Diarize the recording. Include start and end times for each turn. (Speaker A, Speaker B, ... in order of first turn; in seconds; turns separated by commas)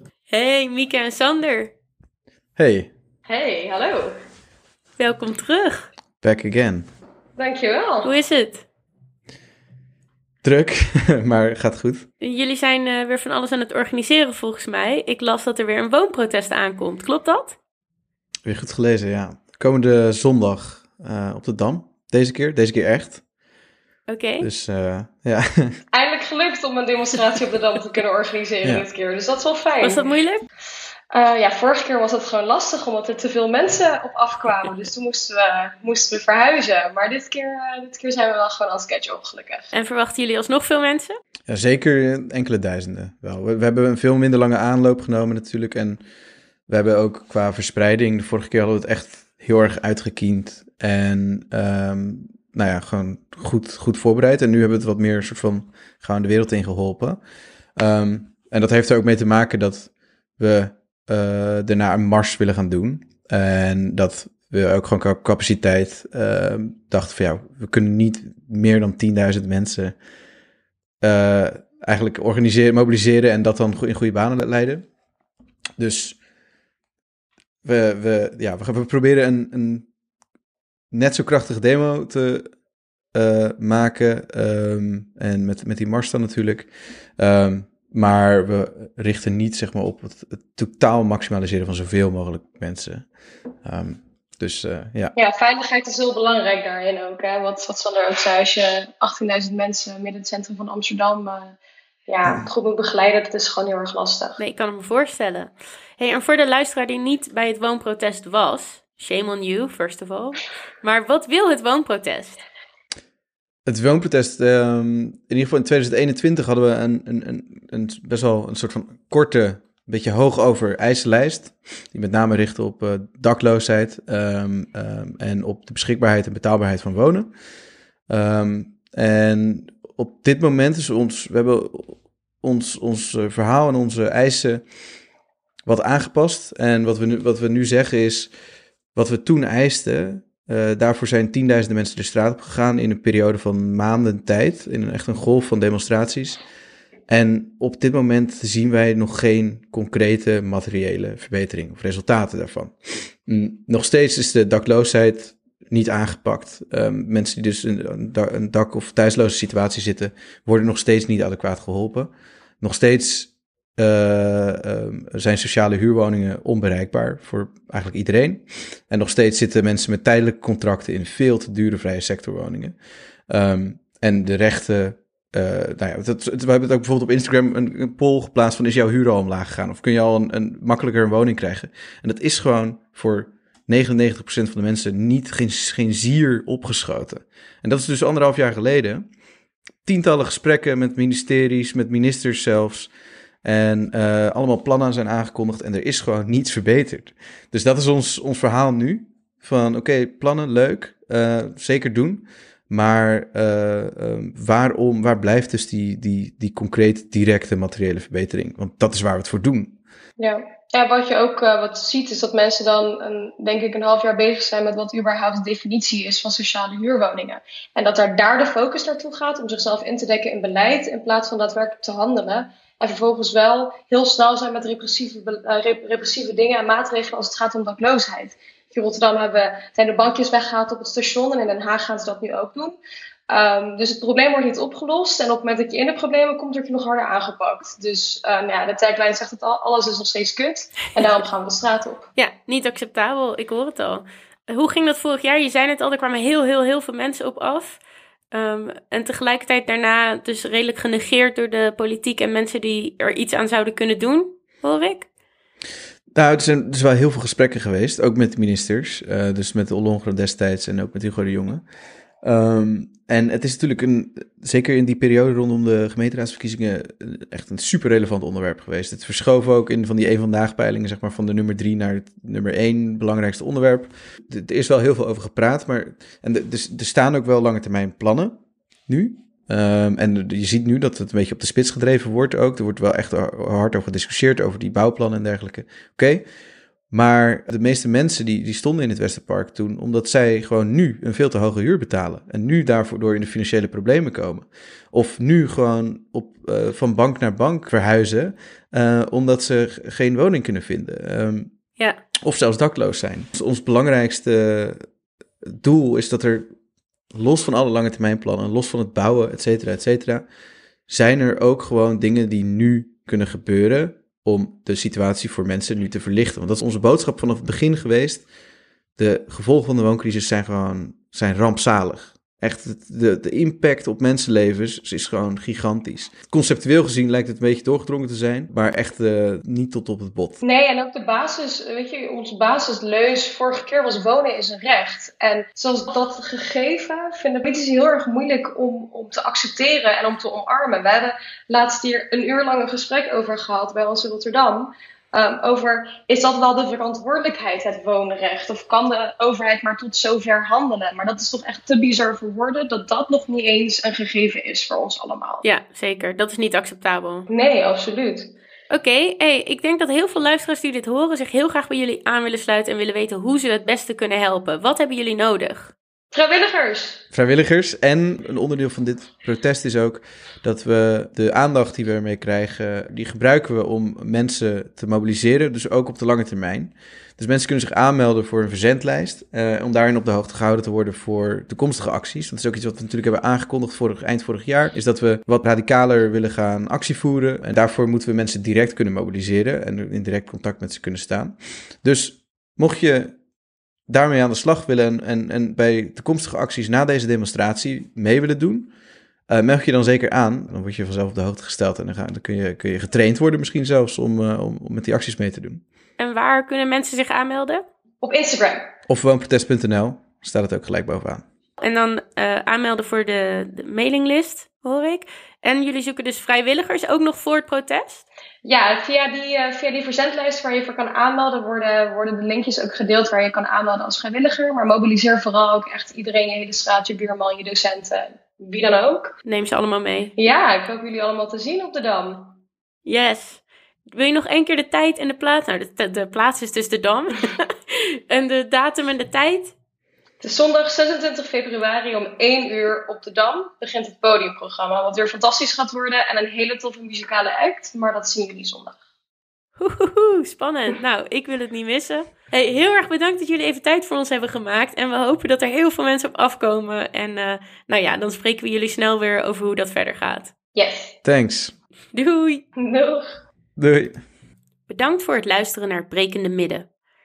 Speaker A: 0.3-1.7, Speaker B: 2.6-2.9, Speaker C: 3.3-4.2, Speaker A: 5.0-5.9, Speaker B: 6.2-6.9, Speaker C: 7.4-8.1, Speaker A: 8.0-8.7, Speaker B: 10.4-12.1, Speaker A: 12.2-17.6, Speaker B: 18.4-23.2, Speaker A: 24.1-24.5, Speaker B: 24.4-25.8, Speaker C: 25.9-30.0, Speaker A: 29.8-30.4, Speaker C: 31.1-39.7, Speaker A: 39.7-41.2, Speaker B: 41.5-46.0, Speaker B: 46.7-57.2, Speaker B: 57.8-70.0, Speaker B: 71.0-74.8, Speaker B: 75.8-76.2, Speaker B: 77.6-79.9, Speaker B: 80.9-82.5, Speaker B: 83.1-93.1, Speaker B: 93.6-95.1, Speaker C: 95.2-101.6, Speaker C: 102.1-104.4, Speaker A: 104.4-112.4, Speaker B: 113.7-127.3, Speaker B: 128.1-134.6, Speaker B: 135.7-138.3, Speaker B: 138.9-146.4, Speaker B: 147.1-162.1, Speaker B: 162.6-172.8, Speaker B: 173.3-189.1, Speaker B: 189.8-192.9, Speaker B: 193.4-209.8, Speaker C: 210.2-232.8, Speaker C: 233.3-242.1, Speaker A: 242.2-247.8, Speaker A: 248.3-255.1, Speaker B: 256.1-261.7, Speaker B: 262.2-286.2, Speaker B: 286.9-301.5, Speaker B: 302.2-304.8, Speaker B: 305.6-306.4, Speaker B: 307.1-310.2, Speaker B: 310.9-318.3, Speaker B: 319.0-330.4, Speaker C: 330.4-355.4, Speaker A: 355.4-357.3, Speaker C: 357.3-358.3, Speaker A: 358.7-365.7, Speaker C: 366.1-367.0, Speaker B: 367.1-393.1, Speaker B: 393.9-398.7, Speaker B: 399.3-405.6, Speaker A: 406.0-407.6, Speaker C: 408.0-408.7, Speaker B: 408.9-411.2, Speaker A: 411.6-418.1, Speaker C: 418.4-429.1, Speaker A: 429.3-430.1, Speaker C: 430.2-432.4, Speaker A: 432.9-439.5, Speaker C: 440.2-448.8, Speaker A: 449.6-460.3, Speaker C: 460.6-460.9, Speaker B: 461.0-461.5, Speaker A: 461.9-462.4, Speaker C: 462.6-463.0, Speaker B: 463.6-464.0, Speaker A: 464.7-466.7